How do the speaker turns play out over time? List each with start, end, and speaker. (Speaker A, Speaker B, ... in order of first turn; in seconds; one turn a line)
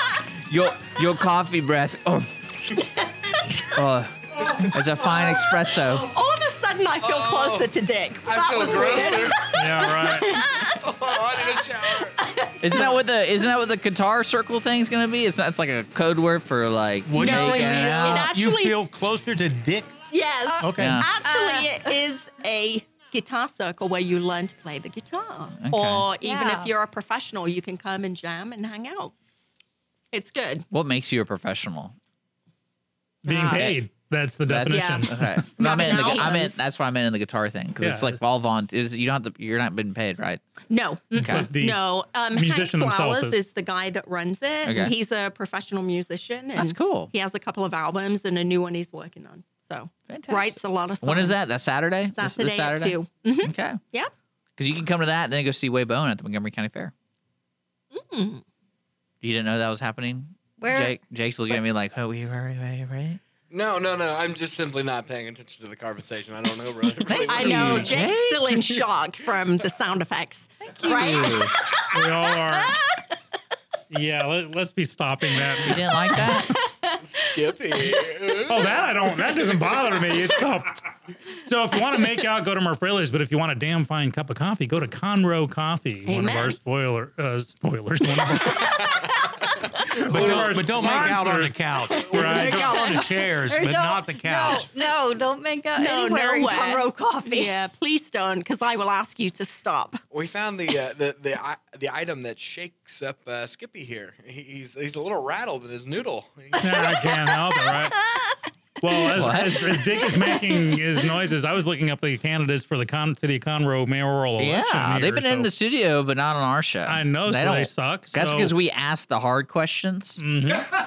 Speaker A: 0.5-2.3
Speaker A: 3.7-6.1
Speaker B: 5.2-11.2
Speaker C: 7.0-7.7
Speaker C: 8.2-9.5
Speaker D: 9.5-10.4
Speaker C: 10.7-12.2
Speaker B: 12.2-13.0
Speaker A: 12.6-18.3
Speaker E: 17.1-19.9
Speaker B: 17.2-18.8
Speaker B: 20.1-29.1
Speaker F: 20.5-22.0
Speaker E: 20.6-21.0
Speaker A: 20.8-21.1
Speaker A: 25.6-26.1
Speaker F: 26.2-26.7
Speaker B: 30.1-30.7
Speaker A: 30.7-31.9
Speaker B: 33.2-33.8
Speaker D: 33.2-35.5
Speaker A: 33.5-33.8
Speaker A: 34.5-40.4
Speaker B: 34.7-36.6
Speaker F: 35.6-36.5
Speaker D: 37.8-38.2
Speaker B: 40.7-51.4
Speaker A: 41.1-41.5
Speaker D: 41.2-43.4
Speaker A: 44.6-44.9
Speaker A: 46.6-47.1
Speaker A: 50.1-53.8
Speaker B: 52.1-54.1
Speaker A: 54.6-56.9
Speaker B: 57.9-58.4
Speaker A: 59.2-63.2
Speaker F: 60.6-61.0
Speaker C: 63.5-67.9
Speaker A: 67.1-68.8
Speaker B: 67.2-72.8
Speaker A: 70.8-71.5
Speaker D: 71.9-72.8
Speaker D: 73.9-75.8
Speaker A: 75.7-76.5
Speaker B: 76.1-77.0
Speaker C: 77.0-78.8
Speaker B: 77.8-78.3
Speaker D: 78.5-80.8
Speaker D: 81.4-89.1
Speaker B: 86.0-86.6
Speaker B: 88.3-88.8
Speaker D: 90.1-92.9
Speaker E: 90.1-94.7
Speaker C: 90.2-90.6
Speaker F: 91.9-97.5
Speaker B: 92.2-92.8
Speaker B: 94.3-94.7
Speaker B: 95.8-100.0
Speaker C: 100.1-107.1
Speaker D: 106.6-108.1
Speaker B: 106.9-107.7
Speaker D: 108.8-115.5
Speaker A: 109.1-109.8
Speaker B: 109.9-110.4
Speaker A: 114.4-120.2
Speaker D: 116.9-118.5
Speaker D: 120.2-120.7